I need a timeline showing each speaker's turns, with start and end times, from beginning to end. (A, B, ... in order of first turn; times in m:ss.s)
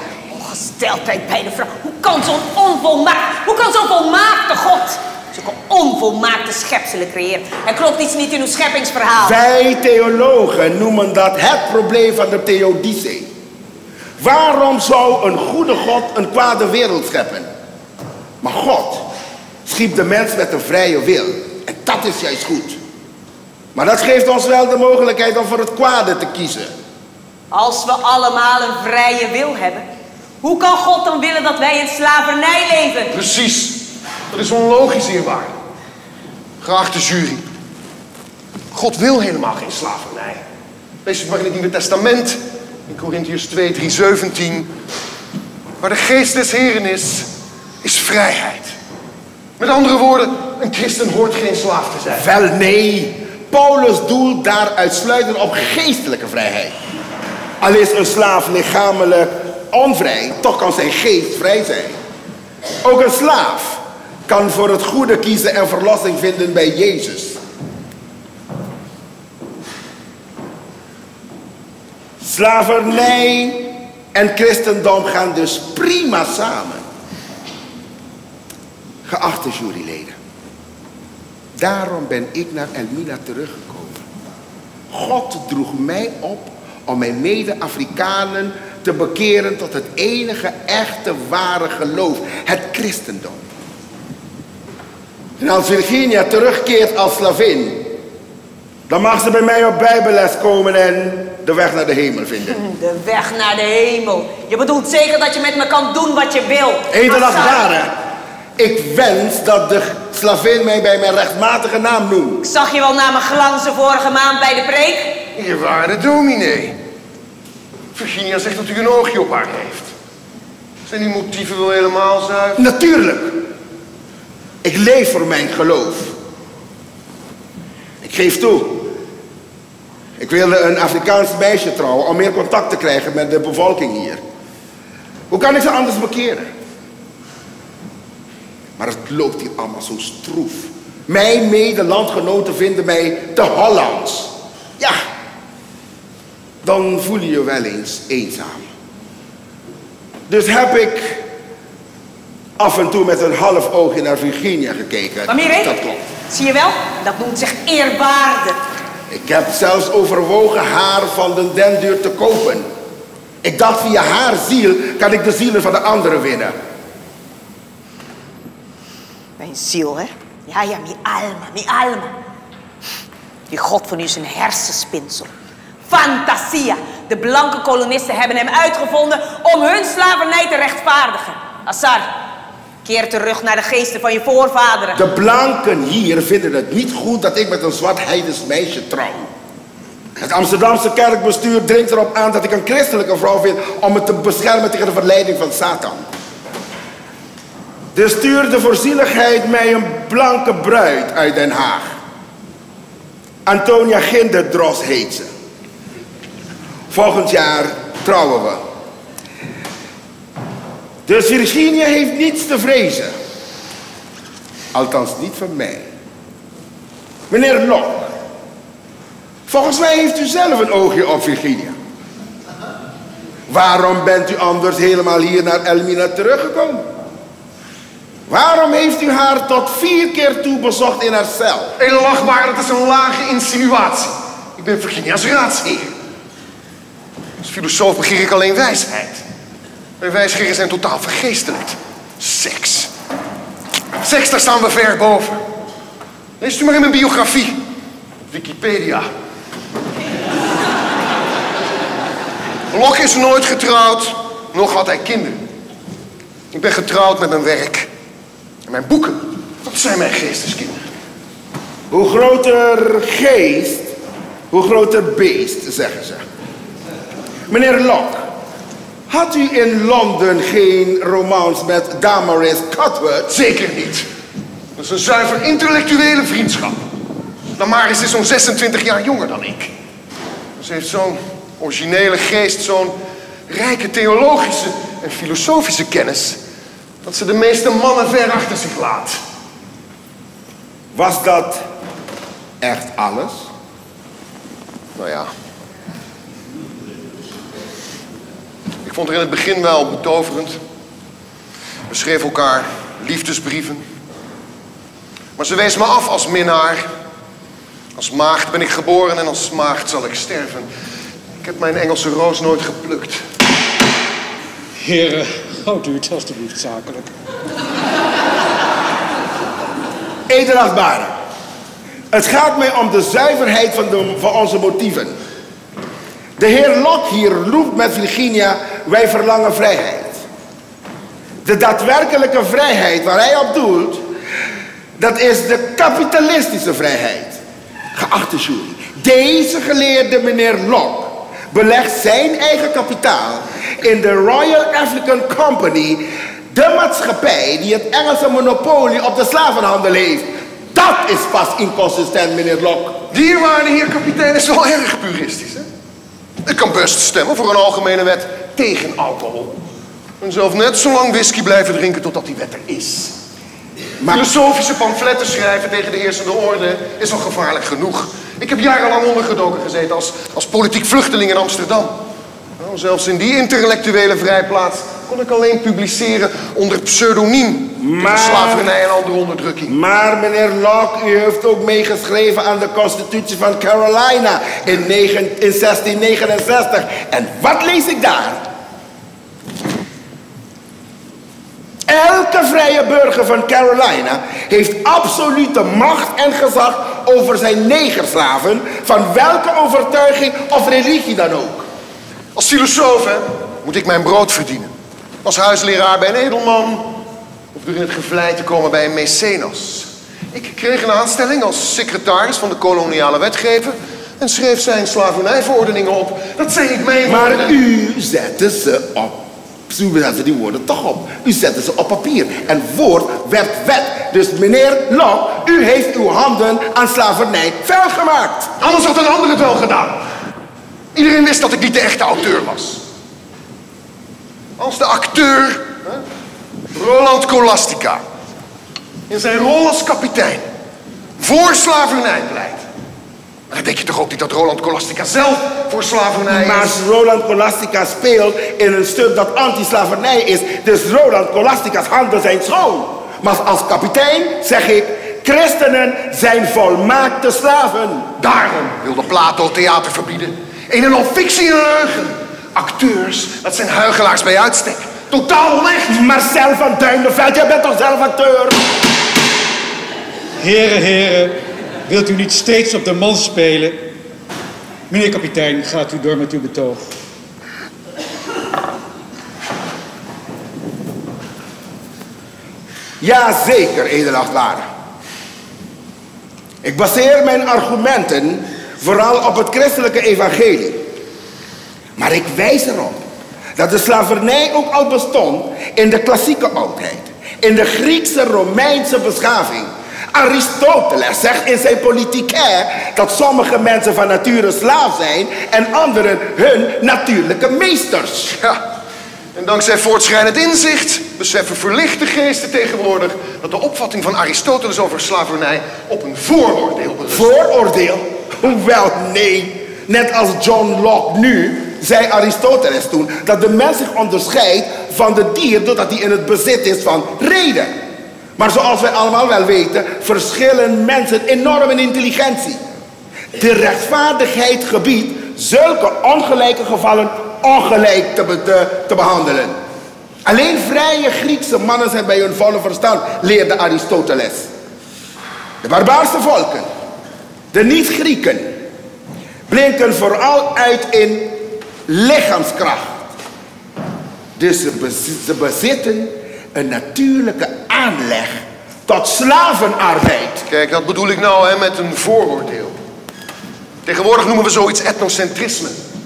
0:00.3-0:09.4 A
0:09.2-0:13.3 B
0:14.2-0:17.5 B
0:18.4-0:19.1 B
0:19.6-0:22.8 B
0:23.8-0:26.7 B
0:27.5-0:29.8 A
0:30.4-0:33.1 A
0:33.1-0:35.5 C
0:36.6-0:37.4 C
0:38.7-0:40.4 C
0:41.0-0:44.7 C
0:45.8-0:47.3 C
0:47.8-0:48.7 C
0:49.6-0:52.3 C
0:52.1-0:56.7 B
0:57.6-1:02.0 B
1:02.8-1:07.4 B
1:12.2-1:16.8 B
1:19.1-1:20.2 B
1:21.5-1:24.0 B
1:24.9-1:33.4 B
1:35.4-1:37.9 B
1:38.9-1:42.6 B
1:42.5-1:47.6 A
1:46.9-1:47.9 B
1:48.6-1:52.4 B
1:52.4-1:55.1 A
1:55.4-1:56.8 C
1:58.0-1:59.9 C
2:00.9-2:02.6 C
2:02.6-2:03.5 B
2:04.6-2:06.1 B
2:08.0-2:08.9 B
2:10.2-2:14.2 B
2:15.3-2:16.5 B
2:18.8-2:25.0 B
2:26.6-2:28.6 B
2:30.3-2:31.2 B
2:32.6-2:36.0 B
2:35.3-2:38.6 A
2:39.1-2:42.7 B
2:43.4-2:46.5 B
2:49.4-2:52.1 A
2:53.5-2:55.3 A
2:55.9-3:02.1 A
3:02.8-3:05.0 A
3:04.9-3:09.3 B
3:10.2-3:16.0 B
3:17.9-3:22.0 B
3:23.5-3:25.3 B
3:26.9-3:28.6 B
3:31.1-3:33.1 B
3:34.7-3:35.9 B
3:37.3-3:38.1 B
3:39.5-3:41.8 B
3:43.5-3:46.9 B
3:48.3-3:51.8 B
3:51.8-3:55.9 C
3:57.4-3:59.2 C
4:00.0-4:02.9 C
4:04.0-4:05.4 C
4:06.4-4:07.6 C
4:08.3-4:09.1 C
4:12.7-4:15.4 C
4:16.5-4:17.9 C
4:18.7-4:20.8 C
4:21.9-4:23.9 B
4:24.5-4:26.2 B
4:27.5-4:28.3 B
4:29.1-4:33.4 B
4:33.3-4:34.1 C
4:34.8-4:36.8 C
4:37.6-4:39.7 C
4:40.6-4:43.0 C
4:43.5-4:46.4 C
4:47.0-4:49.2 C
4:50.9-4:51.6 B
4:52.6-4:53.5 B
4:55.0-4:55.3 C
4:58.8-5:00.6 C
5:01.9-5:03.8 C
5:05.4-5:06.8 C
5:08.0-5:10.7 C
5:11.4-5:13.2 C
5:14.8-5:17.1 D
5:20.3-5:21.1 B
5:22.1-5:25.2 B
5:26.4-5:30.2 B
5:31.4-5:34.1 B
5:35.0-5:37.4 B
5:37.9-5:53.0 B
5:53.1-5:55.7 C
5:56.4-5:59.6 C
6:00.2-6:03.1 C
6:04.1-6:12.0 C
6:12.6-6:19.7 C
6:17.8-6:18.7 B
6:19.7-6:28.5 B
6:31.9-6:41.7 B
6:42.4-6:44.7 C
6:45.2-6:46.9 C
6:47.5-6:57.6 C
6:57.0-7:08.5 B
7:08.6-7:10.0 C
7:10.9-7:12.8 C
7:14.6-7:16.0 C
7:16.7-7:18.0 C
7:19.1-7:20.4 C
7:21.2-7:22.6 C
7:23.5-7:26.8 C
7:26.3-7:38.1 B
7:38.2-7:46.1 C
7:45.9-7:48.6 B
7:50.4-7:53.9 D
7:54.9-7:56.8 D
8:03.0-8:04.7 B
8:06.6-8:10.8 B
8:12.0-8:13.0 B
8:13.6-8:28.3 B
8:28.4-8:28.6 C
8:29.3-8:37.4 C
8:37.1-8:47.8 B
8:48.4-8:52.6 B
8:53.3-8:59.6 B
9:00.2-9:04.5 B
9:05.6-9:06.7 B
9:07.5-9:08.5 B
9:09.5-9:13.0 B
9:14.4-9:20.4 B
9:20.5-9:22.8 C
9:23.8-9:25.8 C